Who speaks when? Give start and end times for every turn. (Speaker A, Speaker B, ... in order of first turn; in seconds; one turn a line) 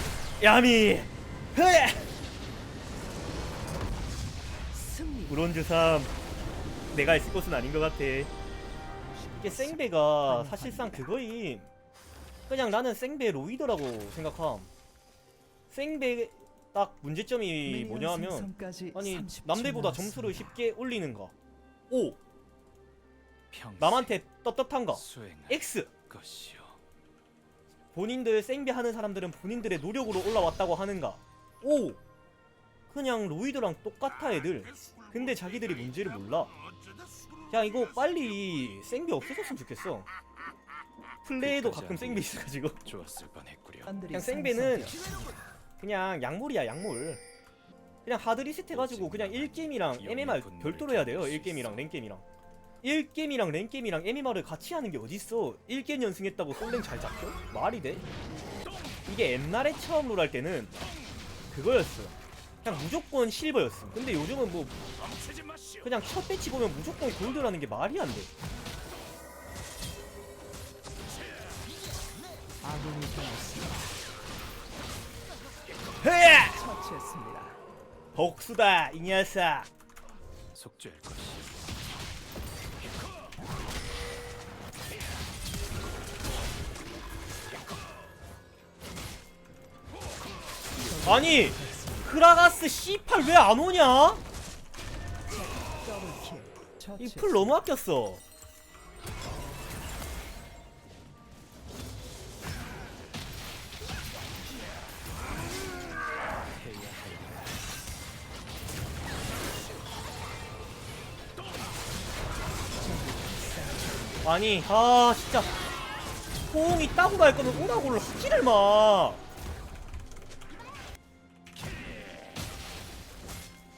Speaker A: 0.4-2.1
Speaker B: 4.7-5.3
Speaker A: 5.3-6.1
Speaker A: 6.9-8.3
Speaker B: 9.3-11.0
Speaker A: 9.4-11.7
Speaker A: 12.5-14.7
Speaker A: 15.7-21.3
Speaker B: 17.6-20.5
Speaker A: 21.9-22.2
Speaker C: 23.5-24.2
Speaker A: 23.8-25.9
Speaker C: 24.9-26.8
Speaker A: 27.9-32.0
Speaker A: 32.9-36.5
Speaker A: 37.5-40.1
Speaker A: 41.2-42.8
Speaker C: 41.4-44.0
Speaker B: 43.9-45.0
Speaker A: 44.0-45.0
Speaker A: 45.8-47.2
Speaker A: 48.0-52.2
Speaker C: 48.7-51.9
Speaker A: 52.8-58.0
Speaker A: 59.0-60.7
Speaker A: 61.5-64.8
Speaker A: 65.8-68.3
Speaker B: 72.6-73.8
Speaker A: 76.0-76.6
Speaker B: 76.3-77.6
Speaker A: 78.1-79.7
Speaker C: 80.5-81.5
Speaker B: 90.8-92.1
Speaker A: 91.0-94.2
Speaker B: 95.3-97.5
Speaker A: 97.0-98.2
Speaker C: 106.5-107.6
Speaker B: 112.7-114.2
Speaker A: 114.2-115.5
Speaker A: 116.5-119.2